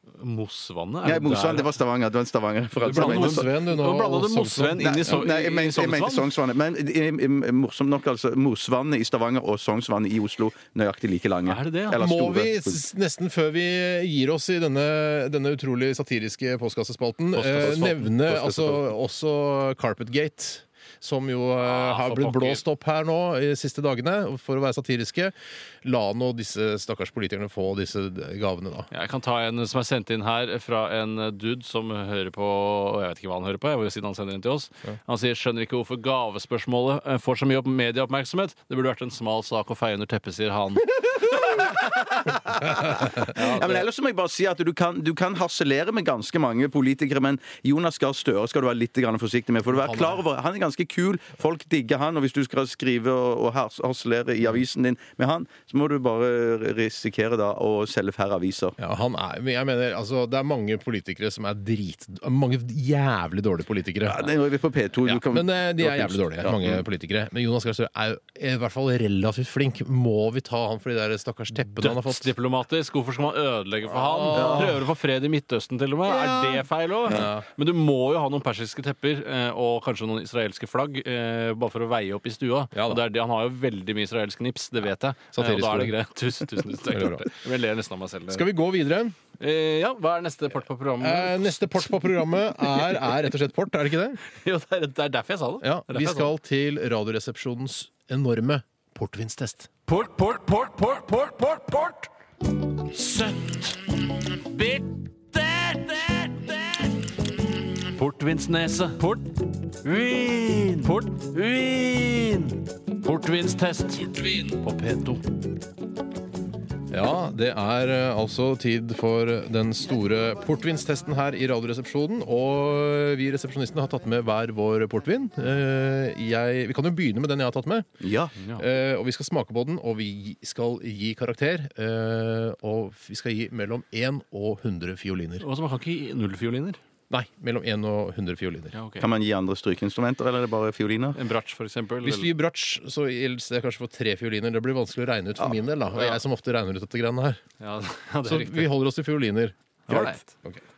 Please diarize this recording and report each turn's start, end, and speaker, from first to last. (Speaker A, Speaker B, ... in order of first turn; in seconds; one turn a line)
Speaker A: 0.2-1.7
Speaker B: 1.0-3.5
Speaker A: 2.8-6.3
Speaker C: 2.8-4.9
Speaker B: 4.8-12.8
Speaker A: 11.5-12.0
Speaker C: 11.9-28.9
Speaker A: 17.3-18.5
Speaker B: 18.3-18.8
Speaker A: 21.6-22.6
Speaker A: 28.9-41.7
Speaker B: 41.5-58.7
Speaker A: 43.1-43.9
Speaker C: 49.7-50.2
Speaker C: 58.8-64.3
Speaker B: 64.0-66.8
Speaker C: 65.0-72.3
Speaker A: 71.8-88.5
Speaker C: 73.9-74.8
Speaker B: 74.3-74.8
Speaker C: 76.1-77.4
Speaker C: 82.7-83.0
Speaker C: 85.3-85.9
Speaker C: 86.9-87.3
Speaker C: 88.3-89.2
Speaker A: 89.4-92.0
Speaker C: 91.0-94.2
Speaker A: 94.2-96.3
Speaker C: 95.6-99.7
Speaker A: 99.9-102.1
Speaker A: 102.7-107.1
Speaker A: 107.8-115.4
Speaker C: 116.9-127.9
Speaker B: 128.0-128.3
Speaker C: 128.6-135.4
Speaker A: 135.4-136.8
Speaker C: 137.1-138.7
Speaker A: 138.7-139.1
Speaker B: 139.0-141.2
Speaker A: 141.1-142.3
Speaker C: 142.0-147.4
Speaker A: 147.6-148.7
Speaker C: 148.2-150.6
Speaker A: 149.9-150.3